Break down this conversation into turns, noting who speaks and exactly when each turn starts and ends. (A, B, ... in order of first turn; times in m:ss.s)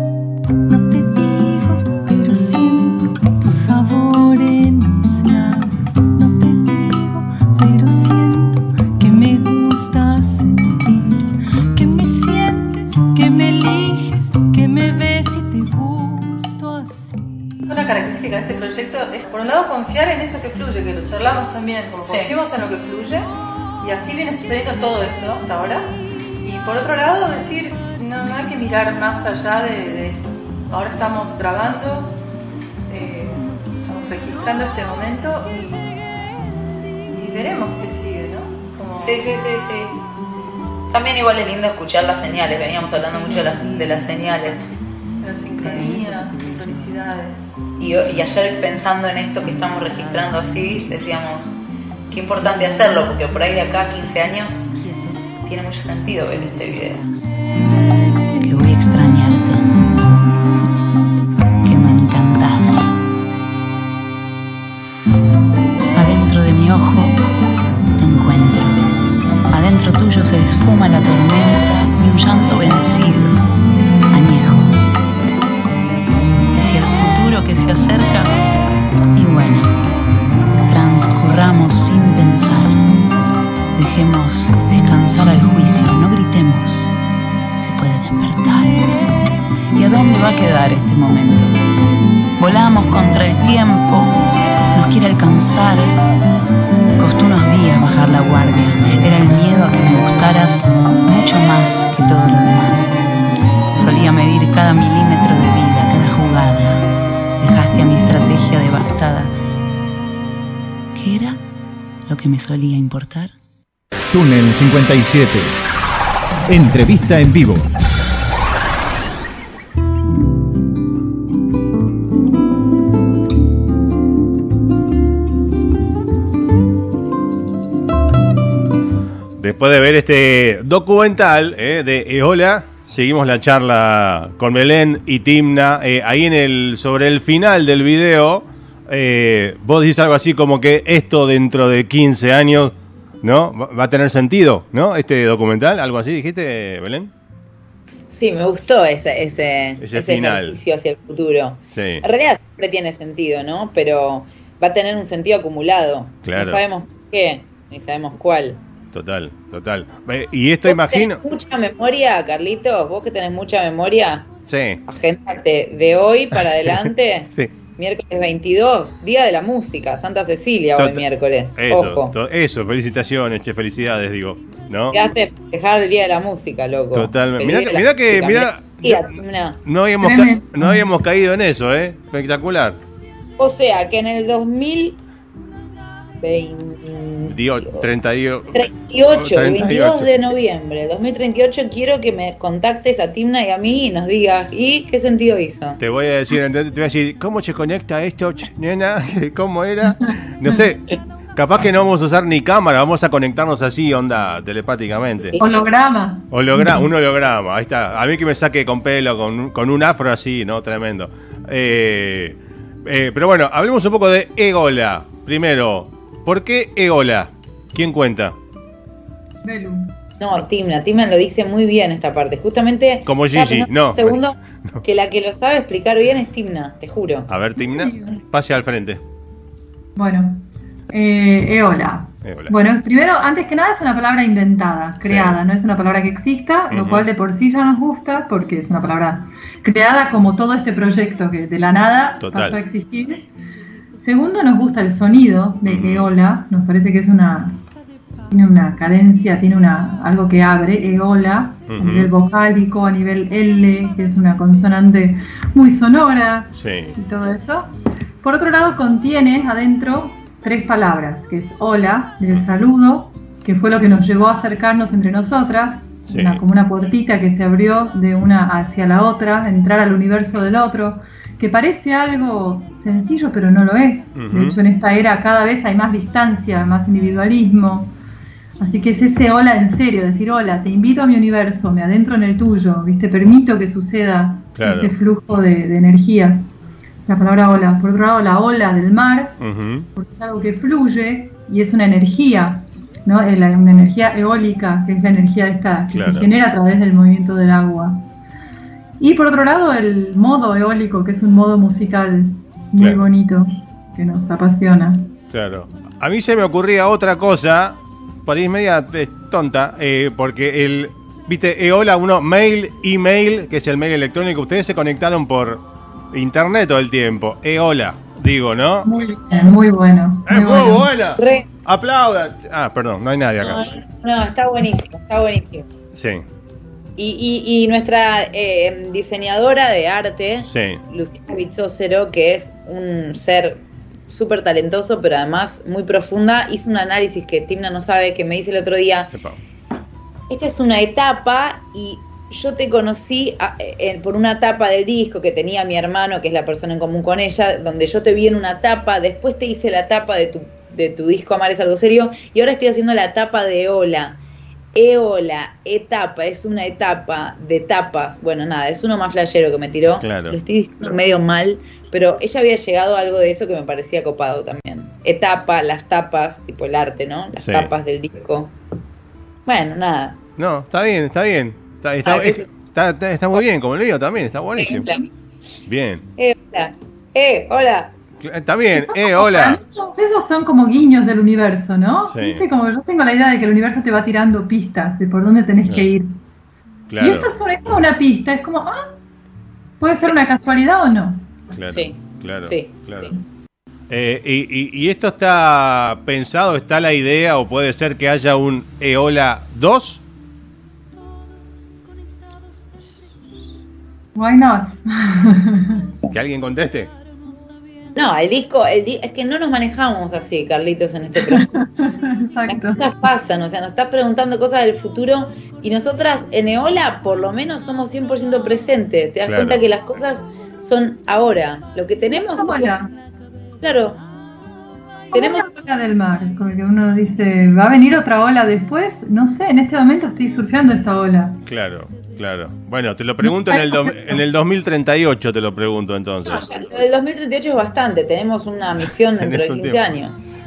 0:00.7-0:23.2 A
0:23.8-0:25.9 A
0:26.4-0:32.1 A
0:32.9-0:36.0 A
0:37.1-0:39.2 A
0:39.0-0:40.0 B
0:40.9-0:44.6 B
0:42.6-0:44.6 C
0:45.2-0:47.6 A
0:45.6-0:47.0 C
0:47.8-0:51.5 B
0:49.5-0:50.8 C
0:52.1-0:54.6 B
0:52.4-0:57.4 C
0:55.5-0:57.0 B
0:58.4-0:59.7 C
1:01.6-1:02.9 C
1:05.9-1:07.2 C
1:08.0-1:08.8 C
1:09.5-1:13.4 C
1:14.1-1:14.7 C
1:16.5-1:18.3 C
1:19.1-1:19.7 C
1:20.7-1:22.8 C
1:23.7-1:26.9 C
1:27.6-1:28.9 C
1:29.7-1:31.6 C
1:32.4-1:34.1 C
1:34.7-1:36.0 C
1:37.0-1:43.0 C
1:43.7-1:46.9 C
1:47.4-1:49.3 C
1:50.9-1:51.4 C
1:52.1-1:53.3 C
1:54.1-1:55.5 D
1:56.5-1:57.7 D
2:09.4-2:27.1 E
2:28.1-2:38.6 B
2:29.8-2:30.6 E
2:31.7-2:32.0 E
2:36.2-2:36.6 E
2:38.9-2:41.2 E
2:40.6-2:44.3 B
2:44.5-2:44.8 E
2:44.8-2:52.1 B
2:50.8-2:51.0 E
2:51.6-2:55.0 E
2:54.9-2:59.6 B
2:56.9-3:02.8 E
3:00.0-3:00.8 F
3:03.4-3:05.0 B
3:06.2-3:07.8 B
3:07.3-3:10.1 E
3:08.5-3:15.8 B
3:15.8-3:25.4 E
3:25.4-3:26.9 F
3:26.3-3:38.4 E
3:39.4-3:39.9 F
3:40.2-3:47.3 B
3:43.1-3:44.2 E
3:47.3-3:49.0 E
3:47.6-3:48.2 F
3:50.0-4:03.3 F
3:52.2-3:52.5 E
3:55.0-3:55.4 E
3:56.7-3:57.0 E
4:02.2-4:02.6 E
4:04.0-4:07.6 F
4:05.6-4:06.1 E
4:08.3-4:37.9 F
4:11.7-4:12.1 E
4:16.6-4:16.9 E
4:26.1-4:26.4 E
4:34.2-4:34.6 E
4:38.6-4:46.5 F
4:44.6-4:44.9 E
4:47.0-4:49.4 F
4:49.4-4:49.9 E
4:50.0-4:58.0 F
4:55.9-4:56.3 E
4:59.0-5:05.1 F
5:02.8-5:03.0 E
5:05.3-5:18.9 E
5:18.8-5:20.9 F
5:20.3-5:23.7 E
5:21.2-5:21.5 B
5:23.4-5:25.7 B
5:25.9-5:26.2 E
5:27.0-5:39.1 B
5:30.5-5:30.8 E
5:39.1-5:39.4 E
5:40.3-5:54.2 B
5:54.7-6:08.5 B
6:00.0-6:00.4 E
6:07.4-6:07.7 E
6:09.4-6:10.2 B
6:10.4-6:14.9 E
6:12.0-6:12.5 B
6:14.6-6:15.1 B
6:15.7-6:16.0 E
6:16.2-6:17.9 B
6:18.2-6:19.6 E
6:18.7-6:26.2 F
6:22.1-6:22.4 E
6:26.9-6:27.3 E
6:27.0-6:28.9 F
6:29.8-6:31.3 F
6:31.5-6:33.1 E
6:31.7-6:33.1 B
6:33.9-6:40.0 E
6:44.2-6:46.0 F
6:46.0-6:46.9 E
6:47.9-6:51.5 B
6:51.2-6:52.8 F
6:52.5-7:02.8 B
6:59.3-6:59.6 E
7:02.1-7:02.9 F
7:03.6-7:04.0 B
7:05.1-7:05.5 B
7:05.1-7:11.4 F
7:11.4-7:16.4 E
7:13.2-7:14.2 F
7:16.2-7:20.2 B
7:19.2-7:19.9 E